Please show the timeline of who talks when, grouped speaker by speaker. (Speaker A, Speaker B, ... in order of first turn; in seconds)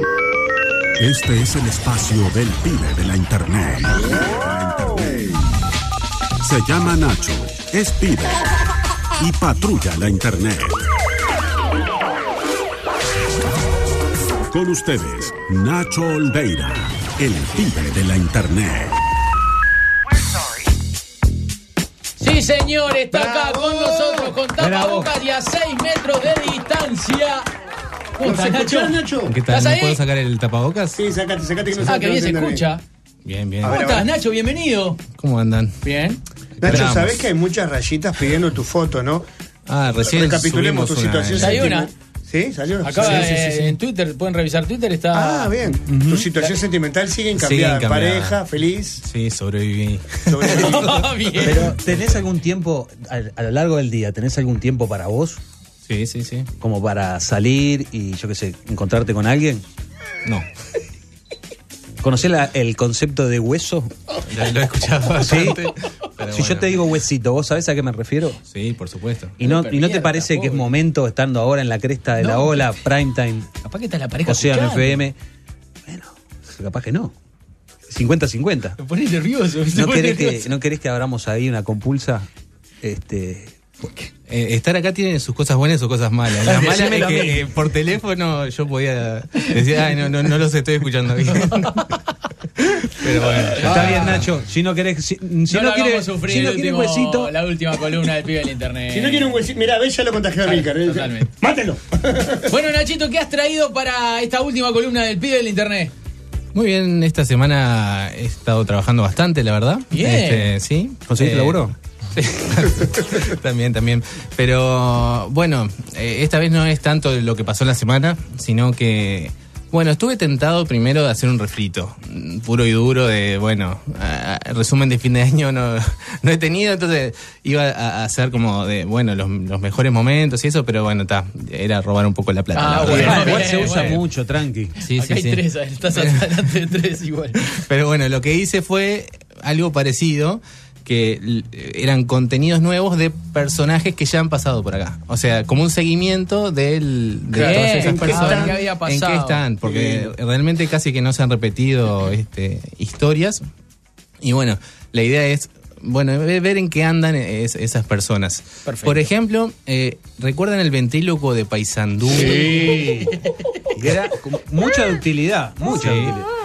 Speaker A: 1.0-5.4, 6.4-8.4, 9.2-10.8, 14.5-19.0
Speaker B: 22.2-27.5, 28.2-30.0, 31.9-32.8, 33.6-35.0, 35.8-36.2, 41.4-41.9, 42.8-45.6, 50.5-51.8, 69.4-70.7, 72.2-72.8, 73.6-75.1, 78.8-80.5, 86.5-87.3, 91.2-91.8, 93.6-94.3, 95.5-99.4, 100.4-101.3, 102.5-105.9, 109.9-110.5, 132.5-134.0, 134.8-137.4, 147.3-150.1, 158.7-159.1, 162.2-163.3
Speaker C: 23.1-24.4, 28.2-29.4, 31.0-32.7, 33.6-34.1, 36.6-39.2, 40.0-43.6, 45.1-49.0, 50.3-51.7, 98.9-102.5, 147.3-148.6
Speaker D: 24.6-25.1, 45.9-46.3, 51.4-55.4, 56.6-59.6, 62.0-63.9, 65.2-65.6, 66.3-68.4, 69.4-73.5, 74.3-75.2, 75.9-77.1, 77.9-78.8, 79.7-82.3, 82.8-84.1, 86.7-87.3, 93.6-97.3, 111.1-111.7, 132.8-134.8, 162.1-163.1, 163.7-166.2
Speaker E: 29.3-31.0, 33.2-33.8, 35.1-35.8, 36.6-37.2, 39.7-41.8, 47.4-48.4, 49.0-50.7, 55.9-56.5, 64.2-66.8, 68.5-69.4, 84.3-91.8, 92.9-94.3, 106.5-134.0, 134.8-136.2, 137.7-153.4, 154.2-162.8, 165.7-166.2